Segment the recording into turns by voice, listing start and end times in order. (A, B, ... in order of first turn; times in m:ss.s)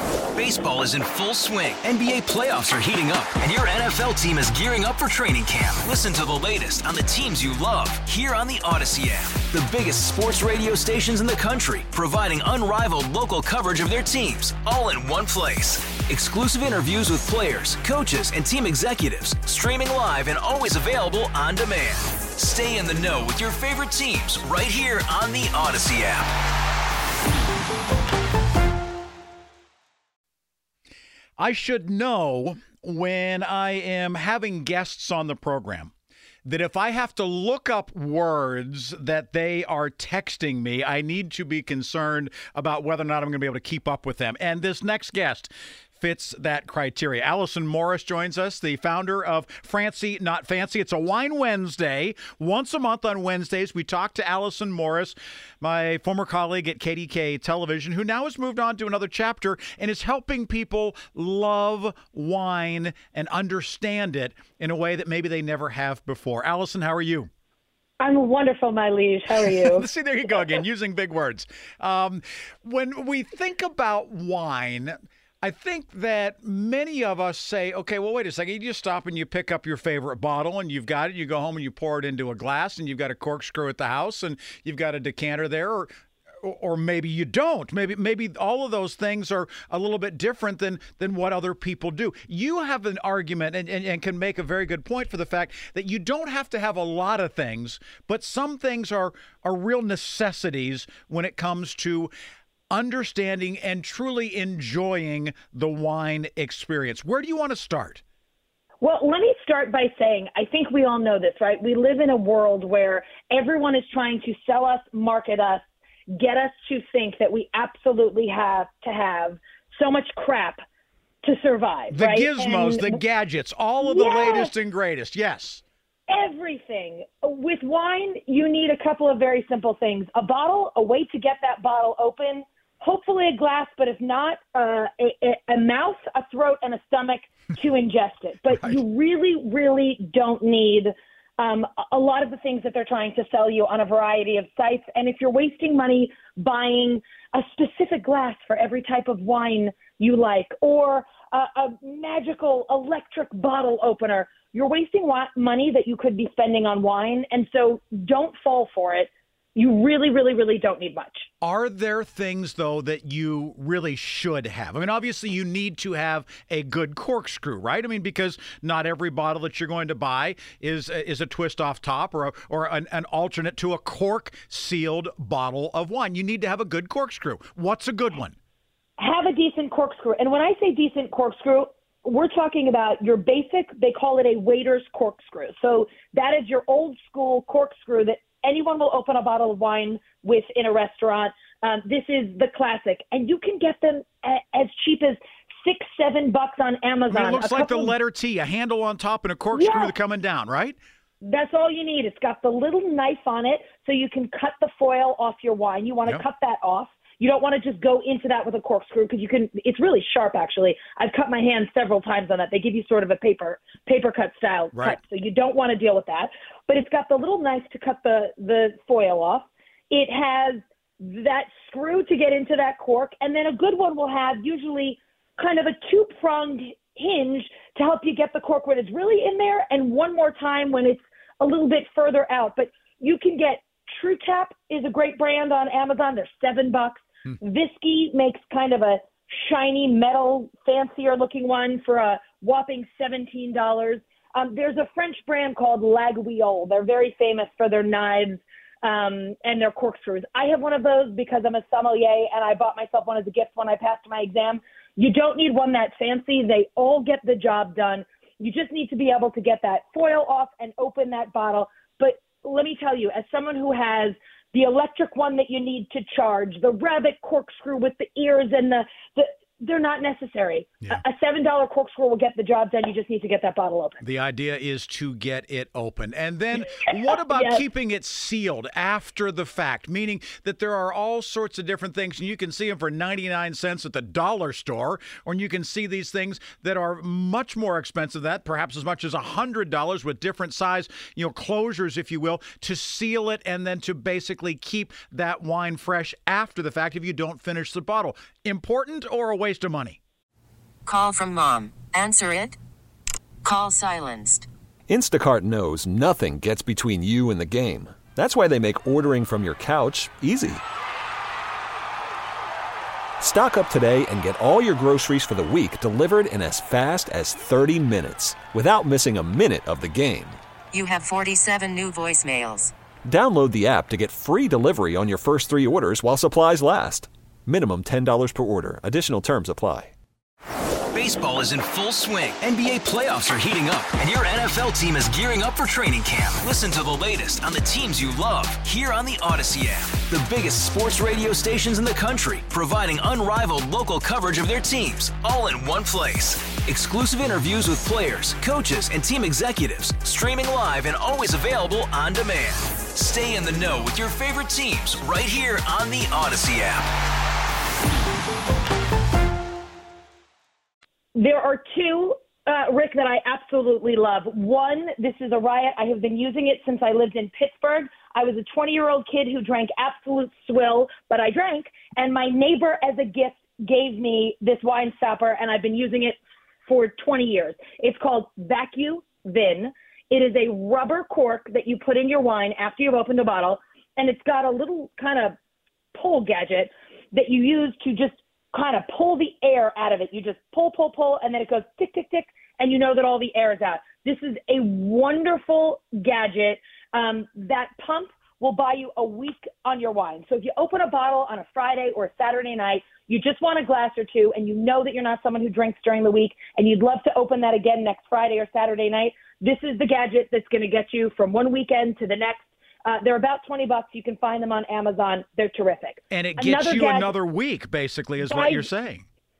0:00.3-0:26.3 A
0:31.4-0:35.9 B
0:36.4-1:07.3 B
1:08.0-1:09.8 C
1:09.3-1:25.9 B
1:26.4-1:42.1 B
1:42.7-1:48.0 B
1:48.8-2:00.6 C
2:01.2-2:03.0 C
2:01.9-2:05.6 B
2:03.8-2:04.5 C
2:06.1-2:41.3 C
2:41.4-2:58.3 B
2:59.0-3:17.9 C
3:17.1-3:20.8 B
3:19.5-3:19.9 C
3:21.2-4:34.0 C
4:34.0-5:00.0 B
4:37.3-4:37.6 C
5:00.8-5:02.6 D
5:03.4-5:04.5 D
5:04.9-5:10.6 E
5:13.2-5:20.4 E
5:20.7-5:22.7 D
5:23.0-5:29.9 E
5:30.9-5:56.8 A
6:01.1-6:16.2 C
6:16.7-6:25.3 C
6:25.9-6:57.1 C
6:56.1-6:59.0 B
6:58.2-6:58.7 C